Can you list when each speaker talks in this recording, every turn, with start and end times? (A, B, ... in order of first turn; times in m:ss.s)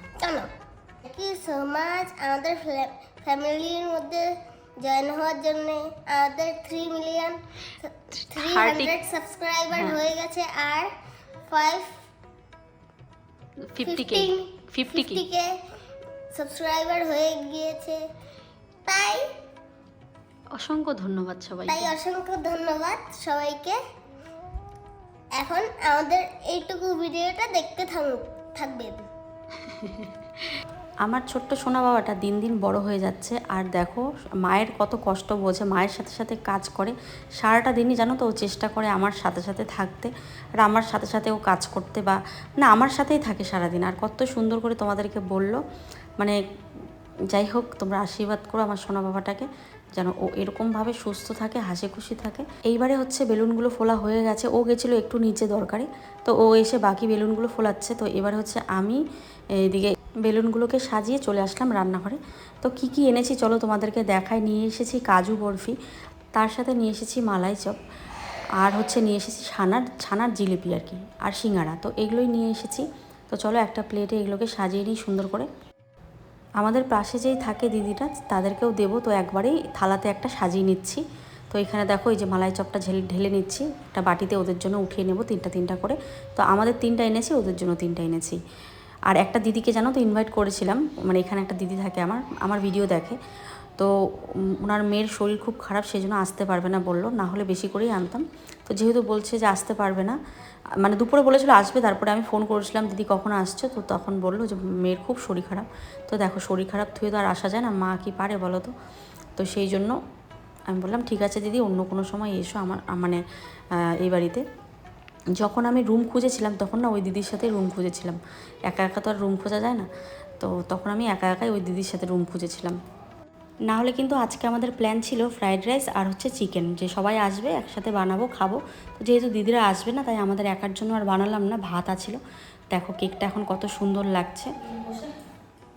0:00.2-0:00.5 A
0:01.0-0:04.2 A
0:04.8-0:10.9 A
0:08.2-0:08.9 B
0:11.5-0:11.9 A
0:13.7-0:15.2 B
0:13.8-0:15.5 A
0:16.3-0:18.0 A
0:18.9-0:19.3 A
0:20.7-0:21.8 B
0:21.4-0:21.8 C
0:21.7-0:23.8 A
0:25.4-0:29.0 A
0:31.0-0:45.6 C
0:47.3-0:59.0 C
0:59.6-1:05.8 C
1:06.4-1:07.8 C
1:08.6-1:15.5 C
1:16.6-1:28.4 C
1:29.1-1:33.2 C
1:34.6-1:40.2 C
1:40.8-1:48.7 C
1:49.4-1:50.0 C
1:50.7-1:53.2 C
1:54.0-1:54.4 C
1:55.4-1:59.9 C
2:00.4-2:02.8 C
2:03.7-2:12.2 C
2:12.7-2:14.5 C
2:14.6-2:15.1 B